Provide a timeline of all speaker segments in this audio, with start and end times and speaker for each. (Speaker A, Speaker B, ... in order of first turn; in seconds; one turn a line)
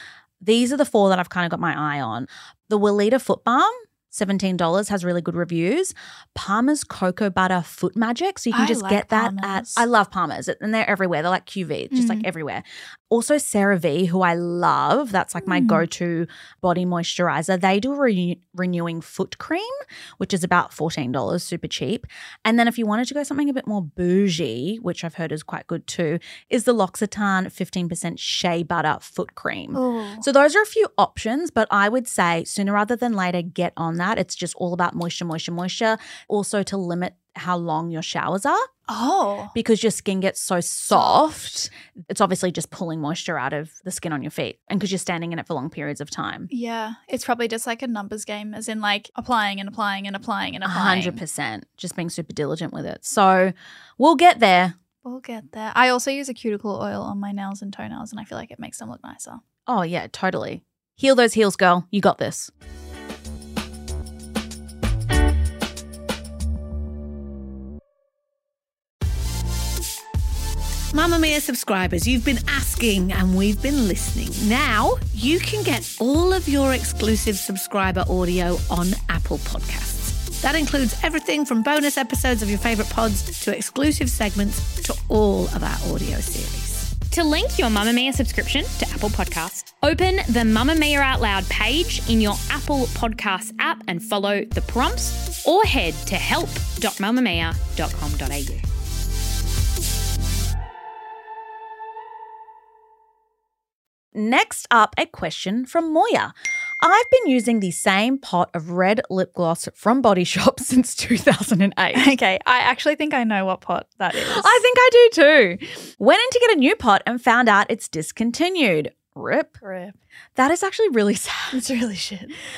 Speaker A: 0.4-38.6
Speaker B: 8.5-9.9
Speaker B: 11.9-12.3
Speaker B: 15.4-15.8
Speaker B: 29.7-30.2
Speaker B: 38.9-39.5
Speaker A: 39.5-46.5
Speaker B: 40.9-41.2
Speaker B: 46.5-51.2
Speaker A: 50.6-54.8
Speaker B: 55.0-59.4
Speaker A: 59.7-62.5
Speaker C: 71.0-87.0
Speaker D: 87.0-98.6
Speaker A: 104.1-112.2
Speaker B: 111.9-114.6
Speaker A: 114.1-119.5
Speaker B: 119.6-120.0
Speaker A: 120.4-121.6
Speaker B: 121.5-122.4